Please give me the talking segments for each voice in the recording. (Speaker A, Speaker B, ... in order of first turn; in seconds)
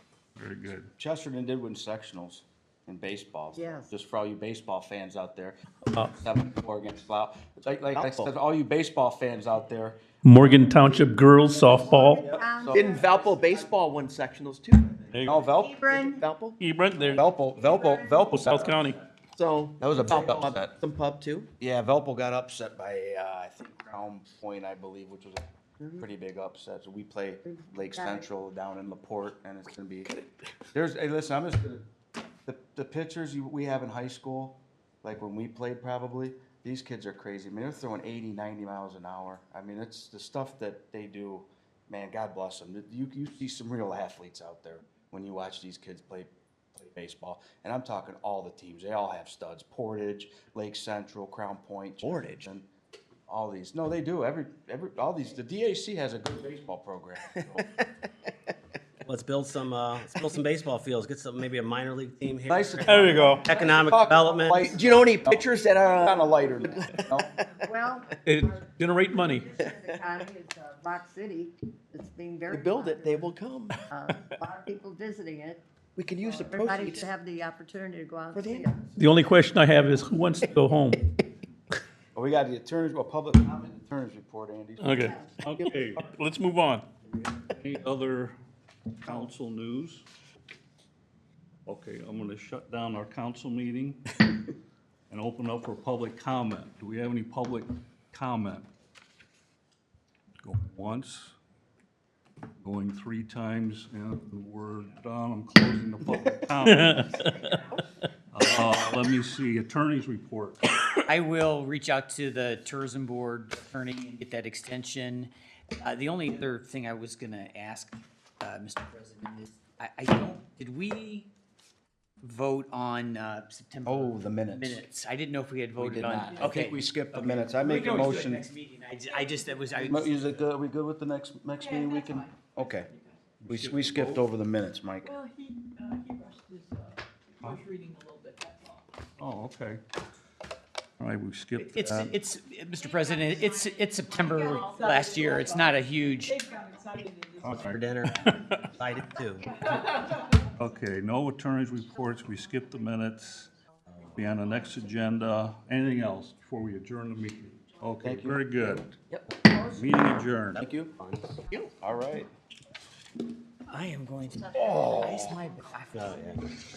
Speaker A: 0.3-0.9, 85.4-86.1, 87.4-88.3, 89.0-90.0, 91.7-94.2, 95.1-98.7, 100.4-101.3, 102.6-107.2, 108.3-110.8, 133.5-134.3, 139.2-139.8, 141.0-142.1, 147.4-148.3, 150.6-153.6, 154.1-159.0, 159.6-160.7
Speaker B: 0.9-5.5, 6.1-10.0, 12.2-13.1, 15.2-15.8, 17.1-18.9, 19.8-20.8, 21.6-25.4, 26.0-30.1, 30.7-31.8, 32.5-52.7, 53.3-57.7, 62.5-67.3, 82.1-85.1, 123.8-124.8, 125.8-128.5, 129.8-132.9, 133.4-135.2, 158.0-158.4, 160.6-160.9, 161.8-162.3, 164.5-165.4
Speaker C: 3.5-3.9, 11.1-13.2, 15.5-16.2, 17.4-18.6, 27.4-28.3, 67.6-73.3, 73.9-75.6, 76.3-78.8, 85.0-85.3, 107.2-107.6, 164.6-165.3
Speaker D: 7.9-8.3, 12.7-16.6, 19.3-21.5, 52.0-52.5, 64.5-67.1, 69.6-70.0, 72.5-73.8, 76.0-77.1, 78.3-78.7, 159.1-159.6
Speaker E: 10.2-12.2, 15.1-15.5, 16.6-17.2, 18.3-19.0, 62.8-63.5, 68.2-69.5, 79.0-81.0, 84.8-85.2, 86.1-86.9, 106.6-107.6
Speaker F: 59.0-64.9, 147.5-149.5, 160.6-161.4, 165.9-166.5
Speaker G: 111.1-121.3, 122.2-130.4, 141.6-146.4, 163.7-166.4
Speaker H: 129.1-129.8, 131.6-133.4, 135.0-138.8, 144.2-147.8, 149.7-150.5